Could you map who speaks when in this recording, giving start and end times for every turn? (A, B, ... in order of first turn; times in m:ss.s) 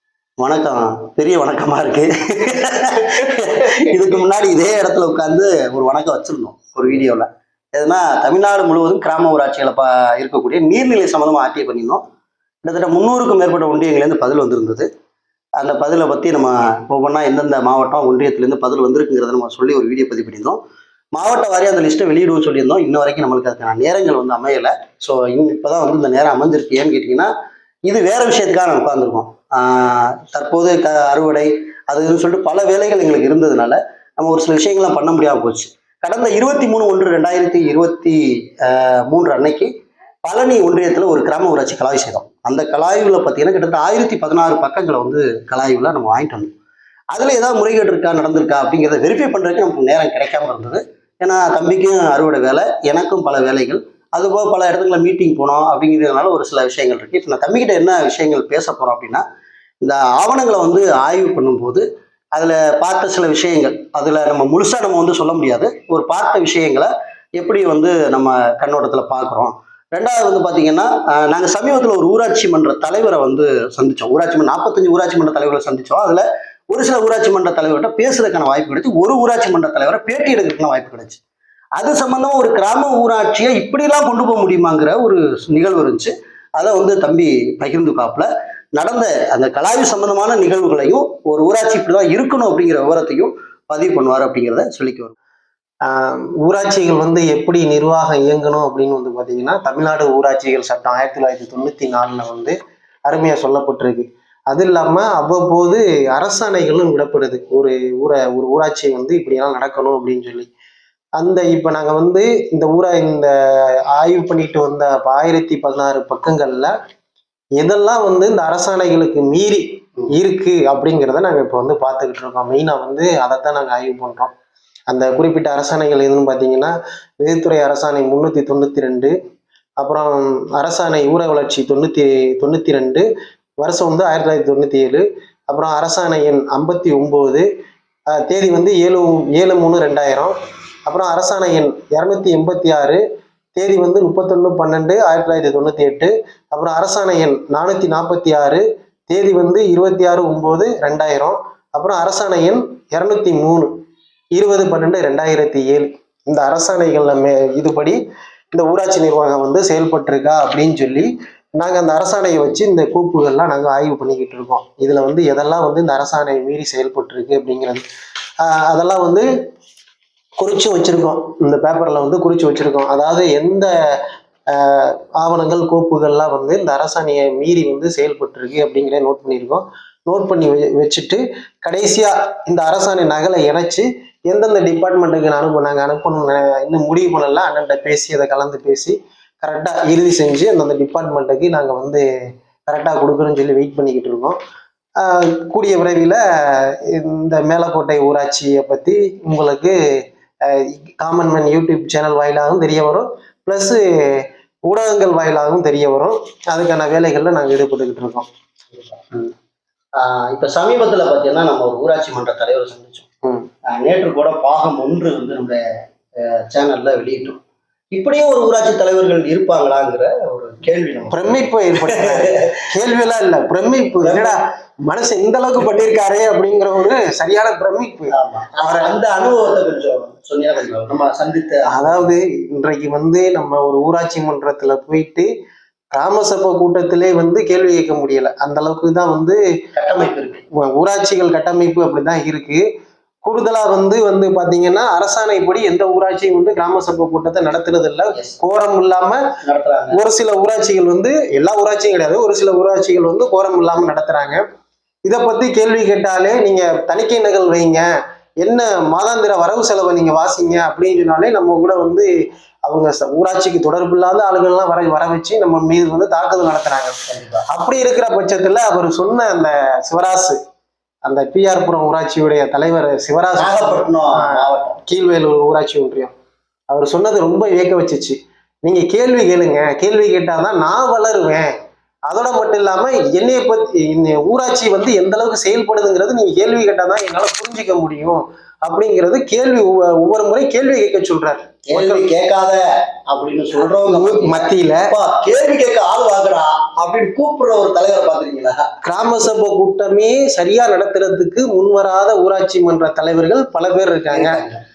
0:00.4-0:12.0 A
0:12.6-0:14.9 A
0:15.6-0:20.6 A
0:21.1-0:27.3 A
0:27.9-0:39.7 A
0:40.2-0:46.5 A
0:47.1-0:59.2 A
0:59.8-1:21.2 A
1:21.8-1:35.1 A
1:35.8-1:50.5 B
1:51.2-1:56.7 B
1:57.6-2:04.3 B
2:04.9-2:09.1 B
2:09.8-2:13.1 B
2:13.6-2:17.4 B
2:18.1-2:20.3 B
2:20.8-2:23.0 B
2:23.6-2:33.7 B
2:34.3-2:38.0 B
2:38.5-2:47.8 B
2:48.4-2:49.3 B
2:50.4-3:12.0 B
3:12.7-3:14.4 B
3:15.0-3:19.8 B
3:20.4-3:28.3 B
3:28.7-3:29.3 A
3:30.0-3:33.0 A
3:33.6-3:35.6 A
3:36.2-3:37.4 A
3:37.9-3:42.6 A
3:41.1-3:44.4 B
3:44.0-3:44.3 A
3:44.9-3:48.9 B
3:48.1-3:52.1 A
3:51.6-3:55.3 B
3:55.9-3:59.4 B
3:59.8-4:00.4 A
4:00.5-4:02.6 B
4:03.2-4:09.2 B
4:09.4-4:10.0 A
4:09.9-4:14.4 B
4:15.0-4:17.9 B
4:18.4-4:22.1 B
4:22.6-4:26.9 B
4:27.1-4:27.4 A
4:27.5-4:30.4 B
4:31.0-4:36.1 B
4:33.4-4:34.8 A
4:36.7-4:41.5 B
4:42.1-4:52.1 B
4:51.7-4:58.7 A
4:53.8-4:54.9 B
4:58.8-5:04.4 B
5:04.1-5:04.6 A